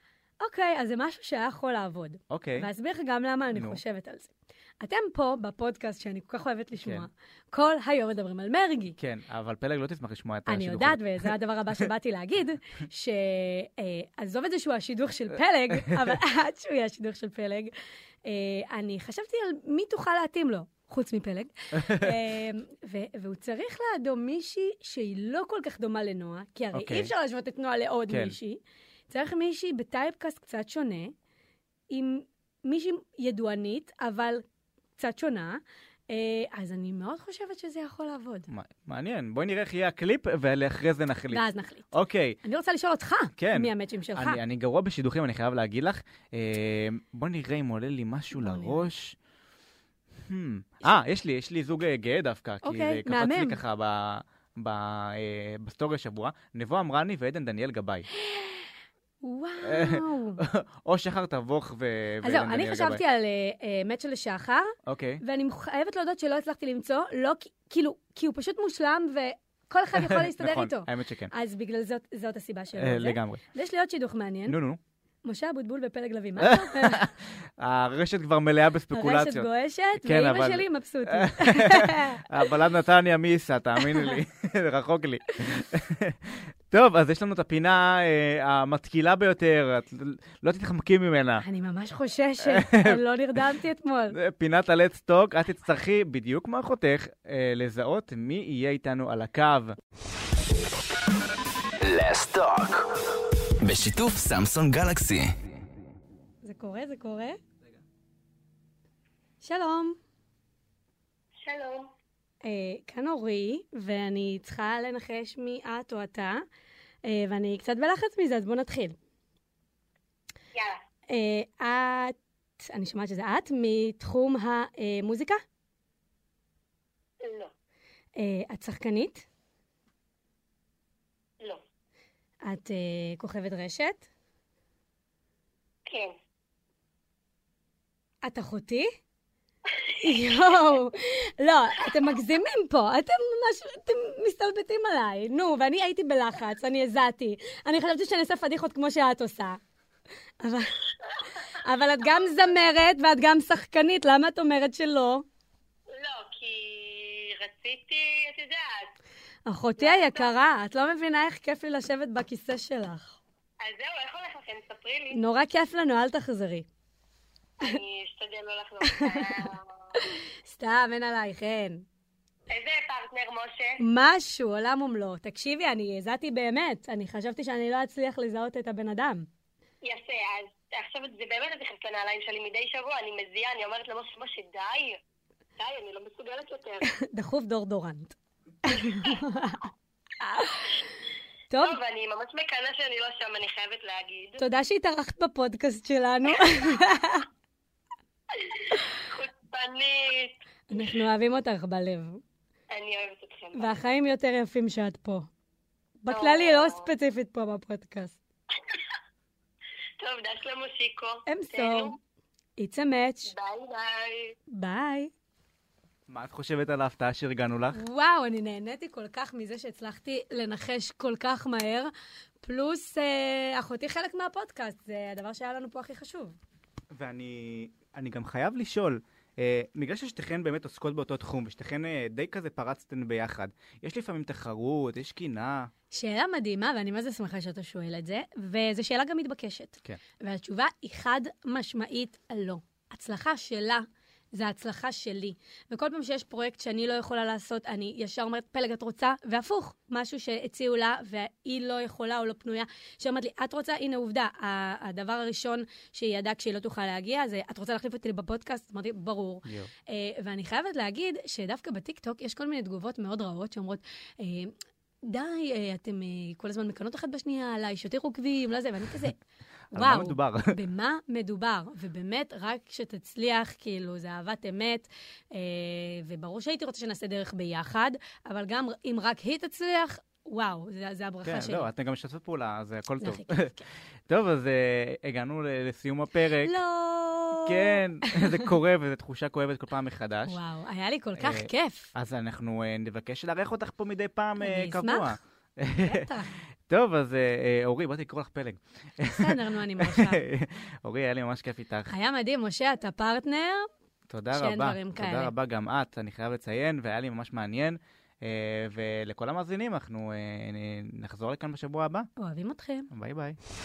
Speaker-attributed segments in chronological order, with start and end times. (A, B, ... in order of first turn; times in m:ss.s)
0:00.4-0:09.0 A
0:02.3-0:02.7 B
0:03.6-0:03.8 B
0:06.8-0:07.1 B
0:09.0-0:11.3 B
0:10.5-0:17.7 A
0:18.2-0:31.1 A
0:21.8-0:22.1 B
0:26.7-0:27.1 B
0:28.1-0:28.4 B
0:31.9-0:34.4 A
0:35.0-0:38.5 A
0:38.5-0:42.4 B
0:41.3-0:44.4 A
0:43.4-0:49.2 B
0:48.4-0:48.9 A
0:50.3-0:58.1 B
0:52.6-0:53.6 A
0:58.1-1:00.4 A
0:59.6-1:03.0 B
1:02.2-1:14.6 A
1:04.9-1:05.2 B
1:09.9-1:11.3 B
1:12.8-1:13.4 B
1:14.5-1:14.8 B
1:15.2-1:17.1 A
1:16.4-1:19.5 B
1:18.9-1:22.5 A
1:20.0-1:31.5 B
1:23.8-1:24.1 A
1:31.4-1:34.2 A
1:32.4-1:33.0 B
1:34.1-1:39.8 B
1:41.8-1:45.4 C
1:46.4-1:47.4 A
1:49.4-1:50.0 A
1:51.4-1:51.9 D
1:52.4-1:56.4 A
1:57.0-1:59.0 A
2:00.6-2:00.8 D
2:01.1-2:05.4 A
2:07.2-2:07.5 D
2:08.2-2:09.3 A
2:12.4-2:14.1 A
2:15.9-2:16.2 D
2:18.2-2:18.9 A
2:19.7-2:20.3 D
2:20.0-2:29.6 A
2:30.4-2:30.8 A
2:31.1-2:31.5 D
2:31.5-2:35.2 A
2:35.9-2:38.9 D
2:39.5-2:43.2 A
2:39.8-2:40.3 D
2:43.6-2:45.2 D
2:45.1-2:46.7 A
2:47.6-2:50.0 D
2:48.8-2:51.8 A
2:52.5-2:53.8 D
2:53.8-2:59.3 A
2:59.8-3:05.0 D
3:05.6-3:06.9 D
3:06.8-3:09.7 A
3:10.2-3:10.6 A
3:11.5-3:11.8 A
3:11.6-3:14.4 D
3:14.4-3:17.3 A
3:18.3-3:20.9 D
3:20.7-3:22.2 A
3:22.7-3:23.8 D
3:23.6-3:25.3 A
3:26.0-3:28.2 A
3:26.1-3:26.9 D
3:30.0-3:32.0 D
3:31.3-3:32.0 A
3:32.6-3:33.3 A
3:33.3-3:34.4 D
3:34.5-3:35.1 A
3:36.1-3:37.8 B
3:37.7-3:41.9 A
3:42.4-3:46.4 A
3:46.9-3:55.7 B
3:55.9-4:29.2 A
4:29.7-4:41.7 A
4:29.7-4:30.6 B
4:41.2-4:46.6 B
4:43.0-4:43.6 A
4:46.4-4:48.5 A
4:47.4-4:50.4 B
4:50.3-4:51.9 A
4:51.2-4:56.1 B
4:54.4-4:55.2 A
4:55.8-4:56.3 A
4:56.7-5:01.9 B
4:59.1-5:00.2 A
5:01.9-5:03.7 A
5:04.1-5:12.1 B
5:04.3-5:05.3 A
5:12.2-5:12.9 A
5:12.9-5:13.4 B